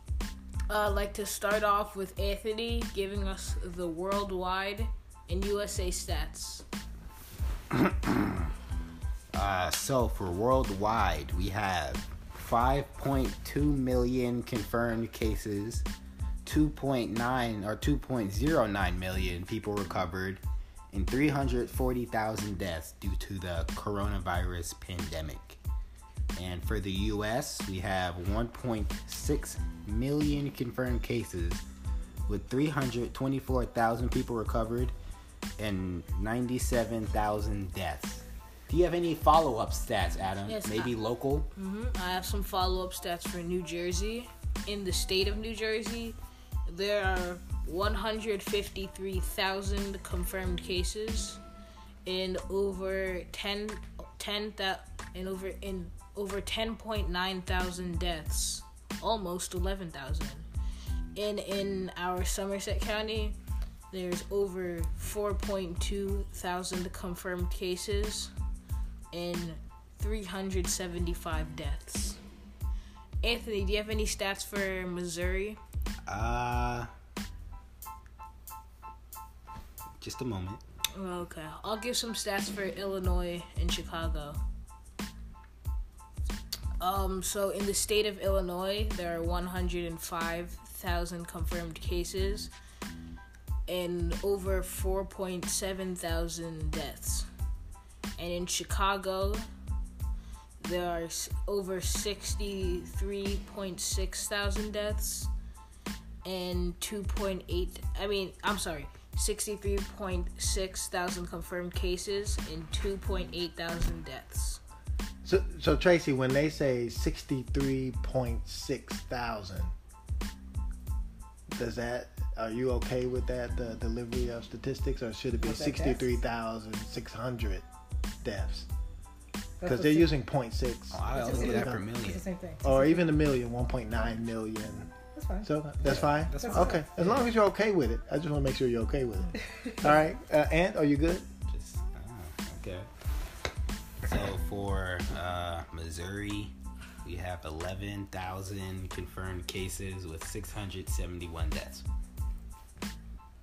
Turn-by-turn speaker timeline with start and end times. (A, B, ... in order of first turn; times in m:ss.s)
0:00.7-0:06.6 A
0:07.9-0:08.3 B
0:09.3-0:15.8 B
0:16.4-0:25.6 B
0:26.3-0:31.6 B
0:32.3-0:34.9 B
0:35.6-0:41.5 B
0:40.4-0:40.9 A
0:41.5-0:51.4 A
0:52.0-1:00.5 A
1:01.1-1:03.4 A
1:03.9-1:08.3 A
1:09.1-1:12.2 A
1:13.2-1:15.6 A
1:16.0-1:16.9 B
1:20.0-1:20.6 B
1:20.9-1:24.4 A
1:26.8-1:32.5 A
1:33.7-1:37.3 A
1:38.2-1:39.5 A
1:40.6-1:45.3 A
1:46.2-1:54.6 A
1:55.2-1:59.7 C
2:01.5-2:07.6 C
2:05.4-2:06.1 D
2:08.2-2:08.7 C
2:09.6-2:10.1 D
2:09.6-2:11.9 C
2:10.9-2:12.2 B
2:11.1-2:13.0 D
2:12.6-2:14.9 C
2:15.1-2:15.5 D
2:15.4-2:21.2 C
2:15.8-2:17.1 B
2:16.4-2:16.9 D
2:21.5-2:22.9 B
2:24.0-2:31.8 B